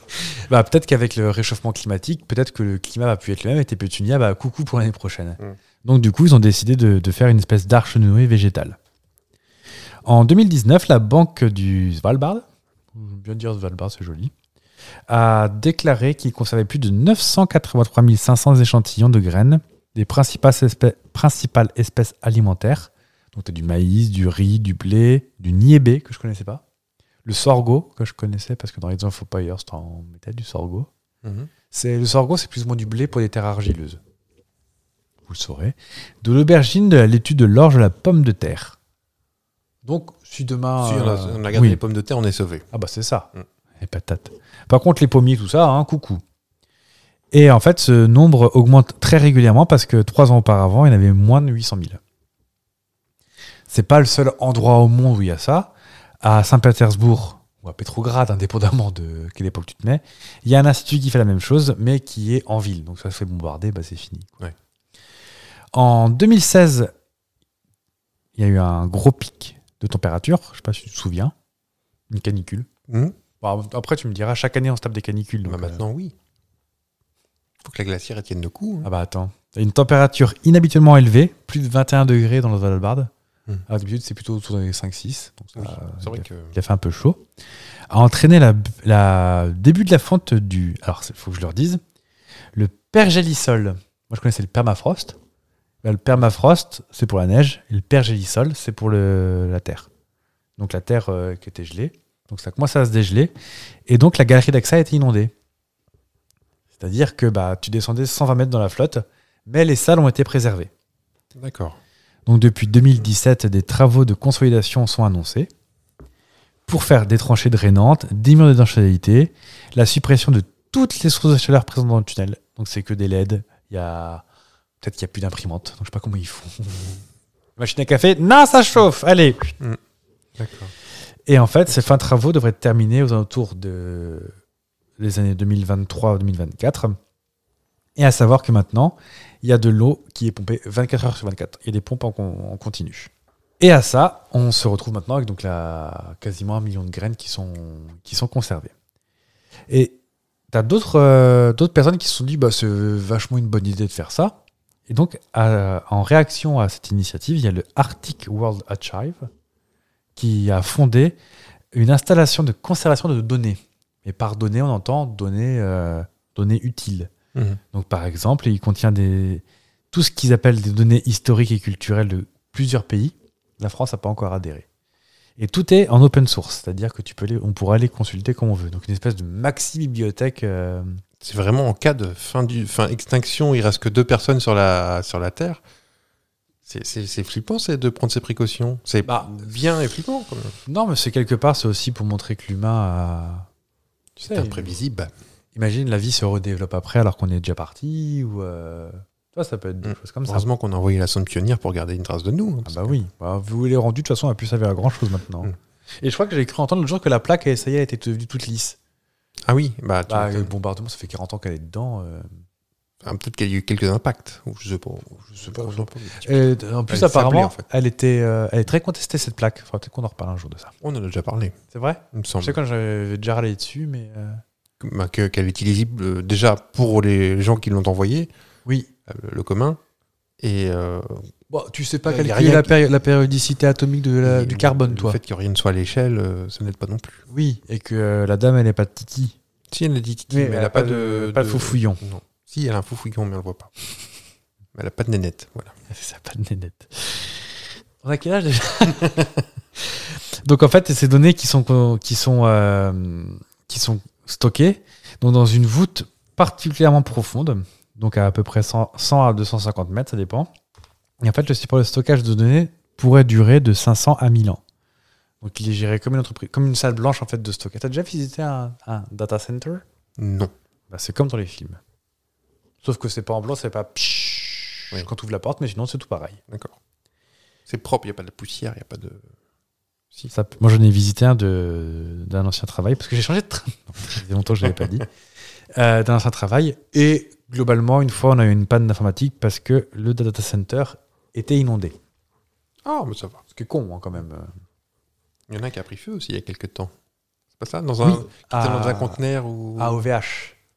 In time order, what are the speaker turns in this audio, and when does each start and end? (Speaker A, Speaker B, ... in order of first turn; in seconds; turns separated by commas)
Speaker A: 0.5-8.8, Speaker A: 10.0-12.4, Speaker A: 12.9-14.3, Speaker A: 15.1-26.6, Speaker A: 27.2-30.9, Speaker B: 31.2-31.5, Speaker A: 31.7-34.0, Speaker A: 35.3-38.8, Speaker A: 39.8-41.8, Speaker B: 40.8-42.6, Speaker A: 42.7-46.2, Speaker A: 47.3-52.0, Speaker A: 53.7-64.4, Speaker A: 65.7-66.9, Speaker A: 68.4-71.3, Speaker A: 72.1-72.7, Speaker B: 72.9-73.2, Speaker A: 73.4-75.8, Speaker B: 75.5-76.1, Speaker B: 77.6-78.9, Speaker A: 78.8-83.1, Speaker A: 83.7-87.2, Speaker B: 85.5-86.5, Speaker A: 87.9-91.8, Speaker A: 92.5-95.2, Speaker A: 95.8-99.9, Speaker A: 100.6-103.3, Speaker A: 103.9-105.3, Speaker A: 106.8-110.7, Speaker B: 111.3-111.8, Speaker A: 112.3-115.5, Speaker A: 116.7-124.2, Speaker A: 124.8-127.0, Speaker A: 127.6-129.5, Speaker B: 130.4-130.7, Speaker A: 131.3-134.3, Speaker A: 135.0-137.0, Speaker A: 138.0-148.7, Speaker A: 149.7-150.0, Speaker A: 150.5-159.3, Speaker A: 160.2-161.2, Speaker A: 161.7-167.1, Speaker B: 167.3-167.6, Speaker A: 167.7-174.7, Speaker A: 175.4-181.0, Speaker B: 181.2-185.6, Speaker B: 186.7-190.5, Speaker A: 189.0-189.4, Speaker A: 190.7-193.5, Speaker A: 194.2-194.8, Speaker B: 194.3-195.1, Speaker A: 195.5-200.4, Speaker B: 199.8-203.0, Speaker A: 202.7-208.8, Speaker B: 209.5-210.5, Speaker A: 210.1-212.3, Speaker B: 213.0-217.6, Speaker A: 215.4-220.7, Speaker B: 220.8-221.6, Speaker A: 221.7-224.4, Speaker B: 222.1-222.6, Speaker B: 224.8-228.3, Speaker B: 229.1-229.8, Speaker B: 230.4-231.3, Speaker A: 231.5-235.2, Speaker B: 232.1-232.8, Speaker B: 234.2-237.2, Speaker A: 237.3-239.3, Speaker B: 239.7-243.7, Speaker A: 240.3-242.0, Speaker B: 244.7-245.7, Speaker A: 245.9-260.5, Speaker A: 261.2-264.6, Speaker A: 265.4-269.8, Speaker B: 270.2-270.5, Speaker A: 270.9-271.8, Speaker A: 272.8-276.4, Speaker B: 277.7-279.2, Speaker A: 280.3-285.1, Speaker A: 285.7-292.0, Speaker B: 292.8-293.4, Speaker A: 293.5-294.5, Speaker B: 295.5-296.9, Speaker B: 297.6-300.0, Speaker A: 298.0-299.2, Speaker A: 299.8-300.6